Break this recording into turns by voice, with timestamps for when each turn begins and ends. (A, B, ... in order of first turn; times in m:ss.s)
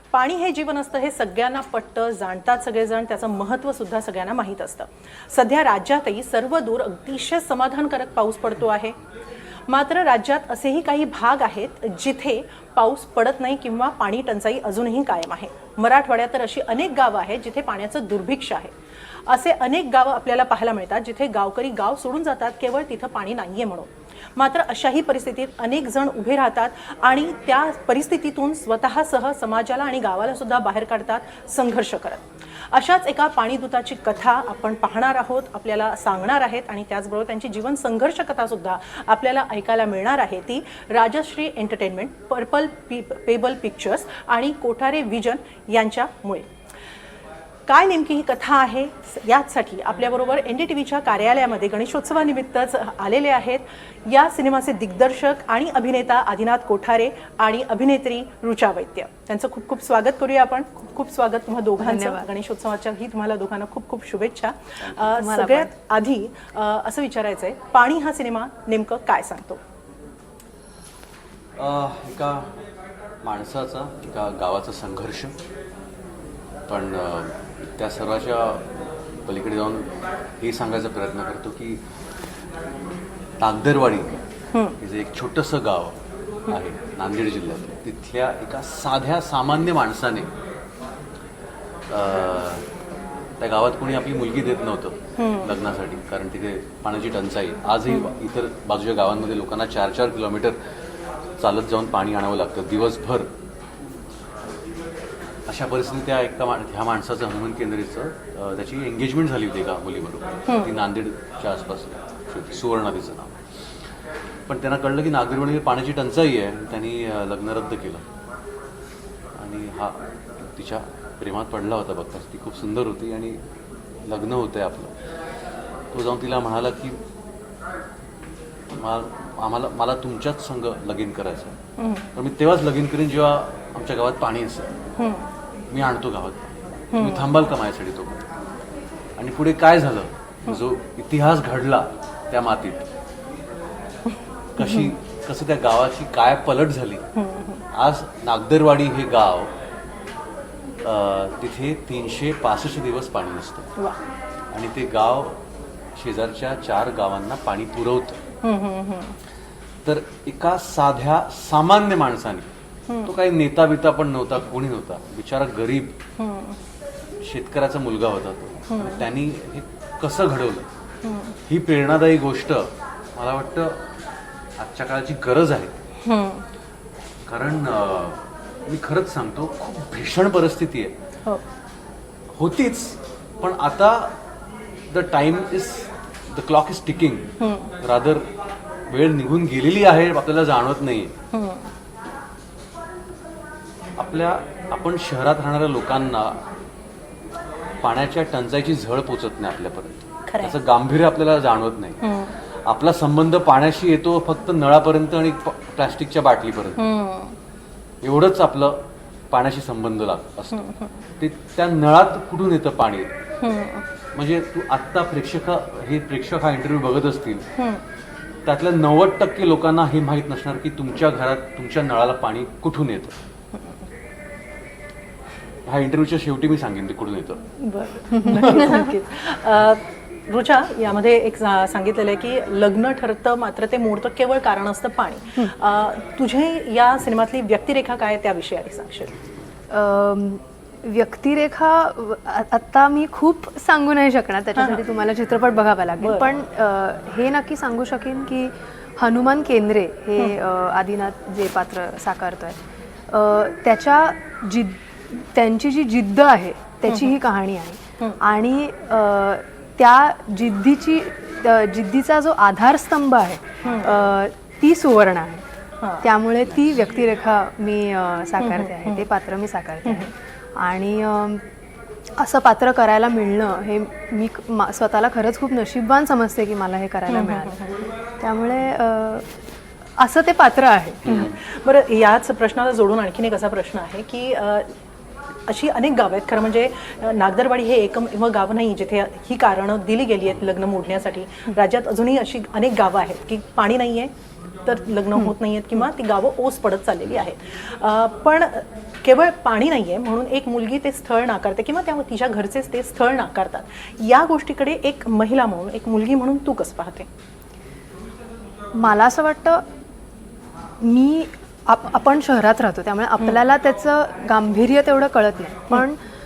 0:00.1-0:09.0 A
0:09.7-0:18.7 A
0:19.3-0:46.5 A
0:47.7-1:09.6 A
1:01.8-1:02.3 B
1:05.0-1:05.7 B
1:11.6-1:12.5 C
1:13.2-1:15.3 C
1:16.7-1:18.6 C
1:19.3-1:21.8 C
1:23.4-1:24.2 C
1:24.5-1:24.8 A
1:24.8-1:30.3 C
1:31.9-1:32.6 C
1:33.4-1:40.6 C
1:35.2-1:35.5 A
1:41.4-1:43.3 C
1:45.5-1:53.3 C
1:50.5-1:50.7 A
1:54.5-1:58.0 C
1:59.4-2:03.4 C
2:04.1-2:04.9 C
2:05.9-2:07.0 C
2:08.7-2:11.6 C
2:11.8-2:12.1 A
2:12.2-2:14.8 C
2:15.0-2:15.3 A
2:15.7-2:18.2 C
2:16.9-2:17.3 A
2:19.2-2:22.9 C
2:24.6-2:27.1 C
2:27.2-2:27.6 A
2:27.7-2:29.5 C
2:30.8-2:33.7 C
2:34.5-2:35.4 C
2:36.0-2:38.2 C
2:38.4-2:39.2 A
2:39.8-2:42.5 C
2:43.0-2:46.0 C
2:46.2-2:46.6 A
2:47.2-2:50.7 C
2:48.7-2:49.1 A
2:51.0-2:51.4 A
2:51.5-2:53.8 C
2:54.6-2:55.7 C
2:56.0-2:56.4 A
2:57.3-3:01.0 C
3:02.4-3:04.2 C
3:04.9-3:07.3 C
3:07.4-3:07.7 A
3:07.8-3:08.3 C
3:08.9-3:11.1 C
3:11.3-3:11.7 A
3:14.0-3:16.4 C
3:17.8-3:22.0 C
3:20.3-3:20.6 A
3:22.0-3:22.3 A
3:22.7-3:26.8 C
3:26.8-3:27.4 A
3:28.0-3:30.6 C
3:30.5-3:30.9 A
3:31.2-3:33.1 C
3:33.4-3:33.8 A
3:34.2-3:37.4 C
3:37.6-3:37.8 A
3:38.4-3:43.1 C
3:45.7-3:47.4 C
3:47.6-3:59.1 A
3:48.3-3:48.6 C
3:48.5-3:48.8 B
3:59.7-4:25.5 B
4:06.0-4:06.3 A
4:16.9-4:17.2 A
4:23.6-4:23.9 A
4:25.8-4:26.1 A
4:26.0-4:31.4 B
4:28.4-4:29.0 A
4:29.8-4:30.1 A
4:32.2-4:37.6 B
4:37.1-4:37.8 A
4:38.2-4:39.3 B
4:40.0-4:41.2 B
4:41.0-4:41.3 C
4:41.1-4:44.7 A
4:45.5-4:54.1 A
4:54.6-5:07.1 A
5:08.7-5:09.6 B
5:10.8-5:16.0 B